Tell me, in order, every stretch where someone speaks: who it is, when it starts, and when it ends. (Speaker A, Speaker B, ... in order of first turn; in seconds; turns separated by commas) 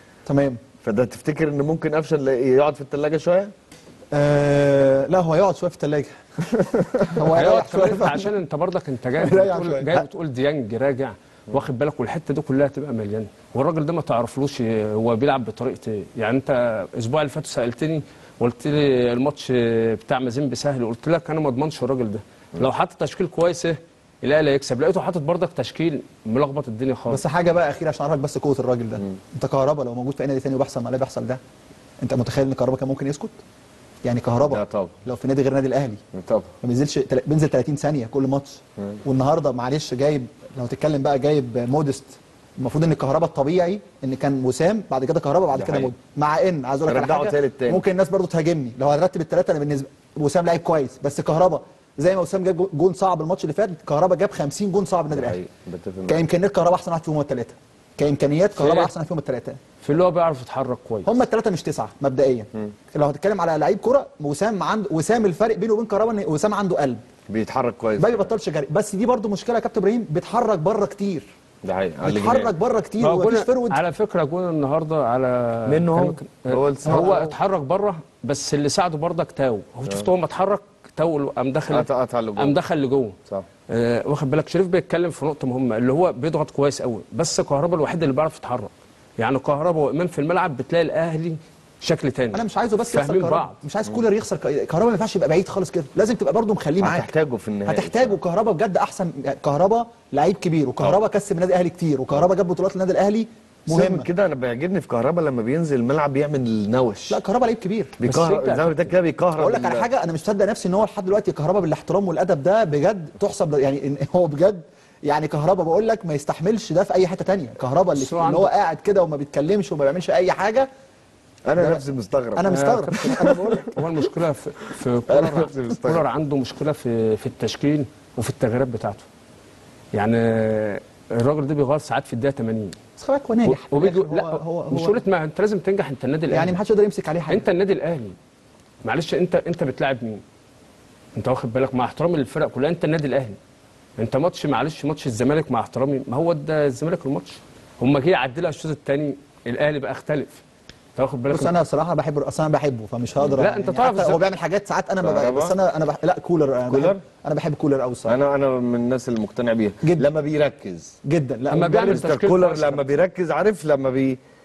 Speaker A: 0.2-0.6, Speaker B: 0.8-3.5, Speaker A: 4.1-6.1, Speaker B: 6.9-7.2, Speaker A: 7.1-8.3, Speaker C: 7.3-27.2, Speaker A: 9.2-10.1, Speaker A: 27.1-31.4, Speaker A: 32.0-33.4, Speaker A: 34.0-36.0, Speaker B: 34.5-35.0, Speaker B: 36.1-36.5, Speaker A: 36.6-55.4, Speaker B: 45.5-45.9, Speaker B: 46.9-47.8, Speaker B: 55.1-56.2, Speaker A: 56.1-59.6, Speaker C: 58.6-58.9, Speaker C: 59.8-61.2, Speaker A: 61.0-67.0, Speaker B: 67.3-68.3, Speaker A: 68.0-71.3, Speaker B: 71.6-72.5, Speaker A: 72.0-73.8, Speaker C: 73.0-83.2, Speaker B: 75.7-77.3, Speaker A: 76.8-77.2, Speaker B: 81.7-82.6, Speaker C: 83.7-93.6, Speaker A: 92.3-97.1, Speaker B: 96.8-98.2, Speaker A: 97.7-104.1, Speaker B: 103.7-107.2, Speaker A: 107.1-108.0, Speaker B: 108.0-109.9, Speaker C: 108.0-108.9, Speaker A: 109.4-120.7, Speaker C: 117.9-118.5, Speaker B: 121.5-123.7, Speaker A: 121.5-123.8, Speaker C: 122.5-129.1, Speaker B: 125.1-126.0, Speaker C: 129.9-132.8, Speaker A: 133.0-135.0, Speaker C: 133.4-136.6, Speaker A: 136.3-137.4, Speaker C: 137.3-138.1, Speaker C: 138.8-140.2, Speaker C: 141.1-143.4, Speaker C: 144.0-150.4, Speaker C: 150.9-151.5, Speaker A: 151.3-158.2, Speaker C: 153.4-154.2, Speaker B: 155.0-155.6, Speaker B: 156.7-157.0, Speaker B: 158.1-160.9, Speaker A: 161.0-162.2, Speaker C: 161.5-163.0, Speaker B: 161.9-164.2